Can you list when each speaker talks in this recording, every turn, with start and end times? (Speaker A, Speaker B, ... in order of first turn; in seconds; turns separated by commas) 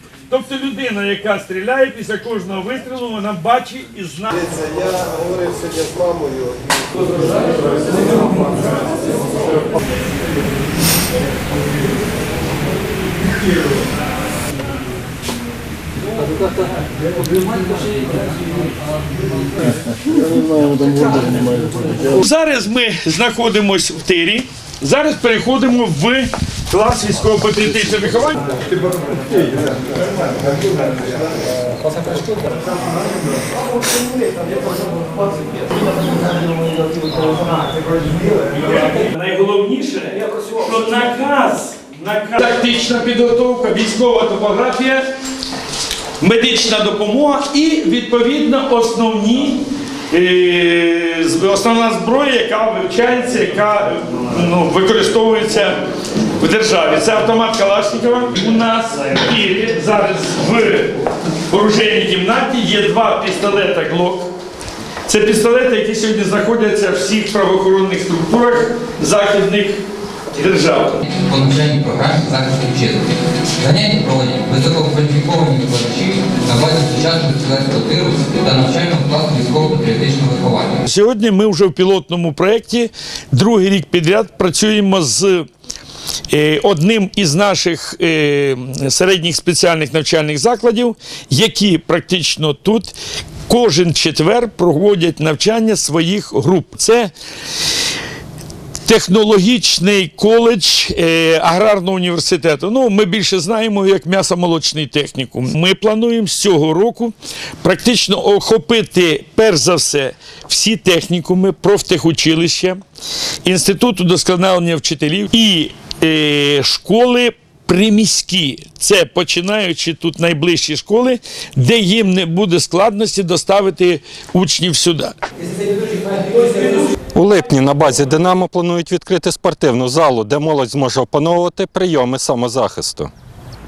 Speaker A: 0.3-4.5, Speaker B: 4.8-6.6, Speaker B: 7.6-8.0, Speaker B: 20.2-21.9, Speaker A: 21.9-28.5, Speaker A: 37.2-37.4, Speaker A: 38.2-45.0, Speaker A: 46.2-55.8, Speaker A: 56.4-61.0, Speaker A: 61.5-64.3, Speaker A: 65.0-69.8, Speaker A: 70.3-71.0, Speaker C: 71.0-80.8, Speaker A: 80.8-85.5, Speaker A: 86.3-92.9, Speaker A: 93.5-97.1, Speaker A: 98.8-112.8, Speaker A: 113.4-125.2, Speaker D: 126.7-133.1